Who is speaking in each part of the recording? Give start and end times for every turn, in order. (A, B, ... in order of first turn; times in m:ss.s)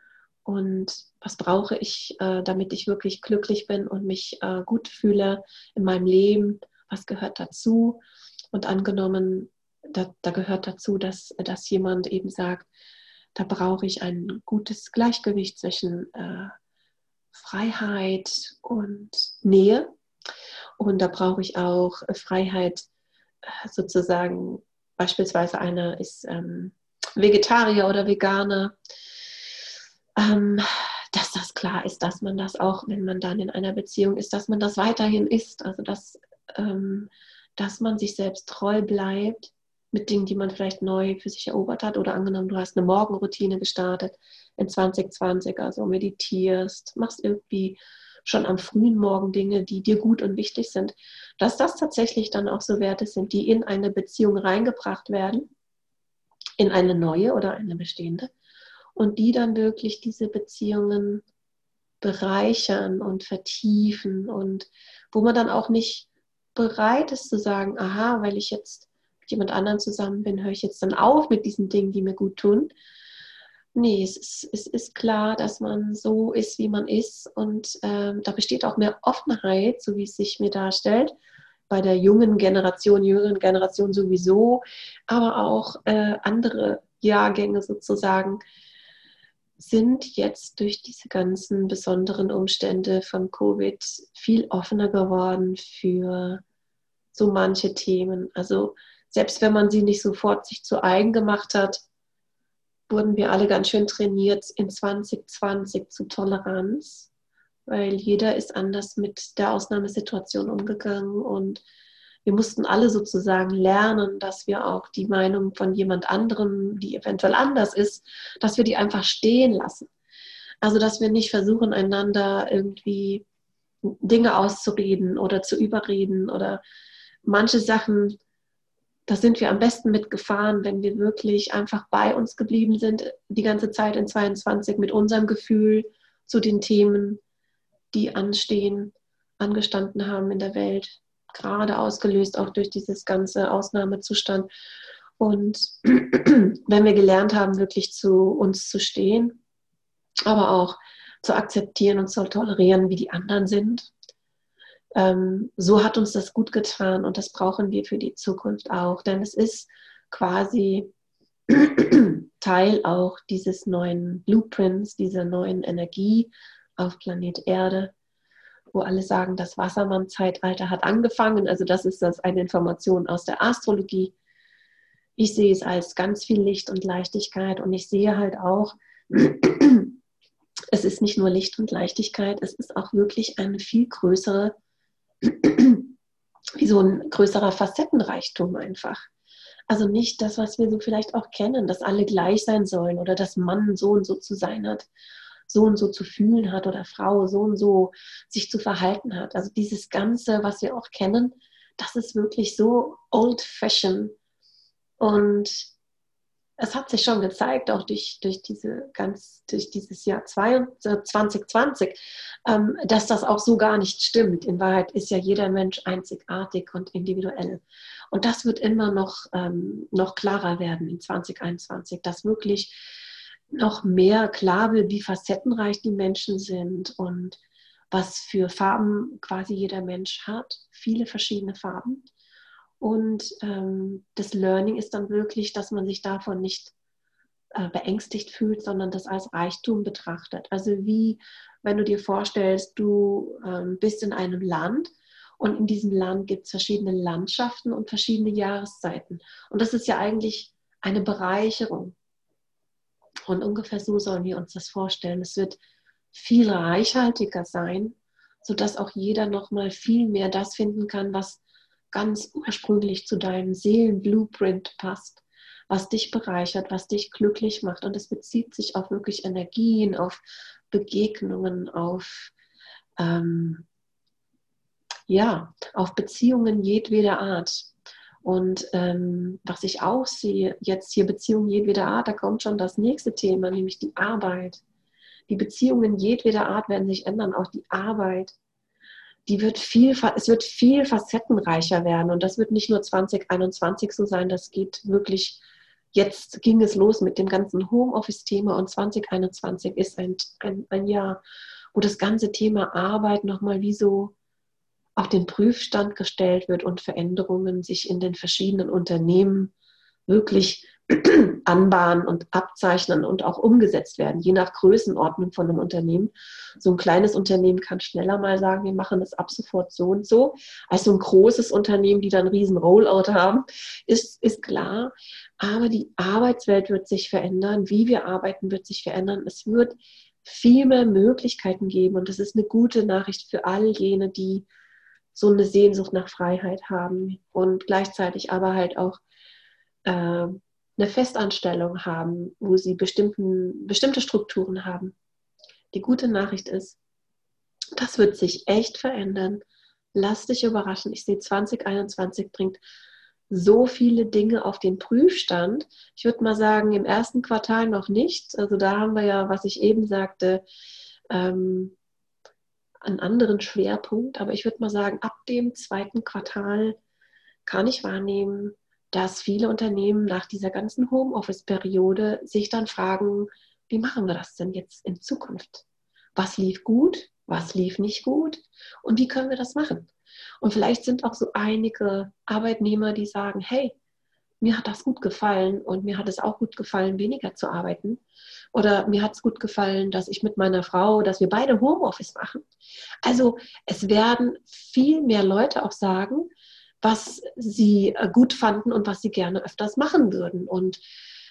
0:00.4-0:08.0 A
0:08.5-0:12.7 A
0:13.4-0:16.5 A
0:17.3-0:19.9 A
0:20.8-0:22.9 A
0:23.4-0:28.8 A
0:30.2-0:55.5 A
0:56.6-0:58.3 A
0:59.0-1:01.2 A
1:02.0-1:12.7 A
1:13.8-1:21.1 A
1:21.7-1:28.4 A
1:29.6-1:36.4 A
1:37.1-1:41.8 A
1:42.9-1:47.1 A
1:47.7-1:51.6 A
1:52.3-1:59.9 A
2:00.6-2:03.2 A
2:03.8-2:06.6 A
2:07.2-2:08.2 A
2:09.1-2:17.2 A
2:17.9-2:24.5 A
2:25.2-2:29.4 A
2:30.3-2:33.9 A
2:35.0-2:40.9 A
2:41.5-2:47.9 A
2:48.7-2:54.1 A
2:55.2-2:59.9 A
3:00.7-3:04.6 A
3:05.2-3:05.9 A
3:06.6-3:09.1 A
3:09.7-3:14.9 A
3:15.5-3:24.2 A
3:25.0-3:25.7 A
3:26.6-3:42.8 A
3:43.5-3:47.4 A
3:47.9-3:52.1 A
3:52.8-3:56.7 A
3:57.6-4:12.0 A
4:13.3-4:15.6 A
4:16.1-4:21.4 A
4:21.9-4:30.2 A
4:30.7-4:32.3 A
4:33.0-4:33.7 A
4:35.1-4:37.7 A
4:38.2-4:44.6 A
4:45.3-4:48.4 A
4:49.3-4:55.4 A
4:55.9-5:01.2 A
5:01.7-5:04.1 A
5:05.0-5:09.5 A
5:10.1-5:34.5 A
5:35.1-5:39.0 A
5:39.9-5:45.0 A
5:45.7-5:46.8 A
5:47.8-5:52.6 A
5:53.3-6:00.4 A
6:01.1-6:01.8 A
6:02.8-6:06.8 A
6:07.5-6:15.6 A
6:16.2-6:19.9 A
6:20.4-6:23.8 A
6:24.4-6:28.0 A
6:28.5-6:32.5 A
6:33.0-6:36.3 A
6:36.8-6:40.8 A